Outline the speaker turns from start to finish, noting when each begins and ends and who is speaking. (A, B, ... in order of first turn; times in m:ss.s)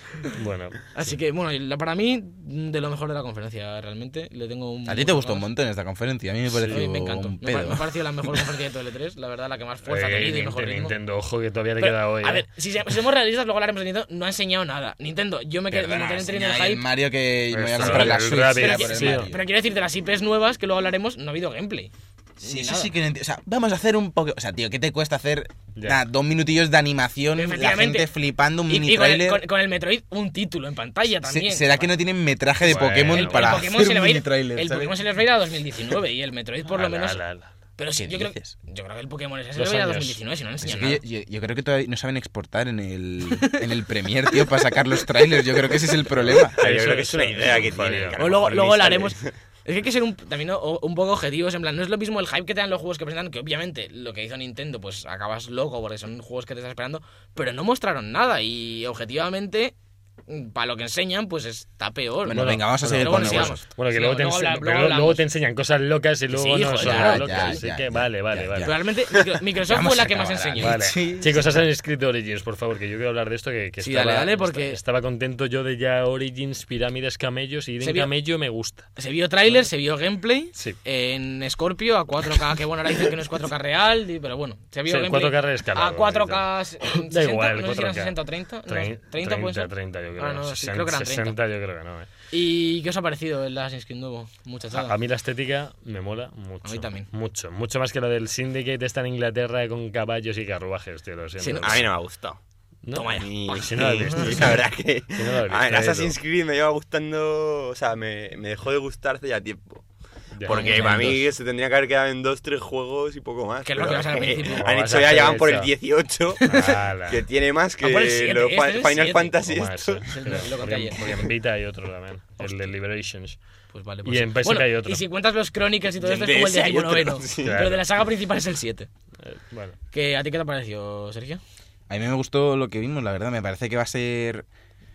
0:00.3-0:00.9 A
0:00.9-0:05.5 B
0:04.9-0:08.2 C
0:06.5-0:06.8 A
0:06.7-0:11.0 B
0:09.9-0:12.5 A
0:11.8-0:16.8 B
0:15.7-0:19.4 C
0:17.5-0:19.3 A
0:17.8-0:22.9 B
0:22.4-0:29.4 C
0:25.7-0:26.0 A
0:27.3-0:28.1 B
0:28.7-0:31.9 B
0:31.2-0:35.0 C
0:32.6-0:33.7 A
0:33.1-0:37.2 B
0:36.6-0:37.5 A
0:37.8-0:41.0 B
0:38.0-0:38.5 C
0:39.6-0:40.2 A
0:40.6-0:46.6 C
0:43.3-0:43.6 B
0:45.3-0:45.8 B
0:46.2-0:48.2 A
0:46.5-0:49.3 D
0:47.4-0:48.1 C
0:48.2-0:59.7 B
1:00.3-1:05.2 B
1:02.2-1:03.6 C
1:02.3-1:08.8 A
1:06.3-1:07.6 B
1:06.8-1:08.8 C
1:08.6-1:10.8 B
1:09.6-1:11.5 C
1:10.6-1:18.9 A
1:13.8-1:14.8 B
1:17.8-1:18.1 B
1:19.0-1:31.4 B
1:24.9-1:32.1 A
1:32.3-1:34.9 B
1:34.7-1:41.9 A
1:36.6-1:37.1 B
1:41.4-1:41.8 B
1:41.6-1:42.4 D
1:42.8-1:46.1 A
1:42.9-1:44.4 B
1:43.1-1:49.8 D
1:50.3-1:51.1 A
1:50.4-2:00.1 D
1:50.5-1:51.2 B
1:53.6-1:54.7 B
1:54.2-1:55.7 A
1:56.4-1:57.2 A
1:57.8-1:59.4 B
1:59.4-2:03.4 A
2:00.1-2:01.0 B
2:03.7-2:08.9 B
2:04.0-2:05.0 A
2:06.0-2:07.6 D
2:07.4-2:07.8 A
2:09.2-2:09.8 A
2:09.9-2:11.4 B
2:11.9-2:14.5 C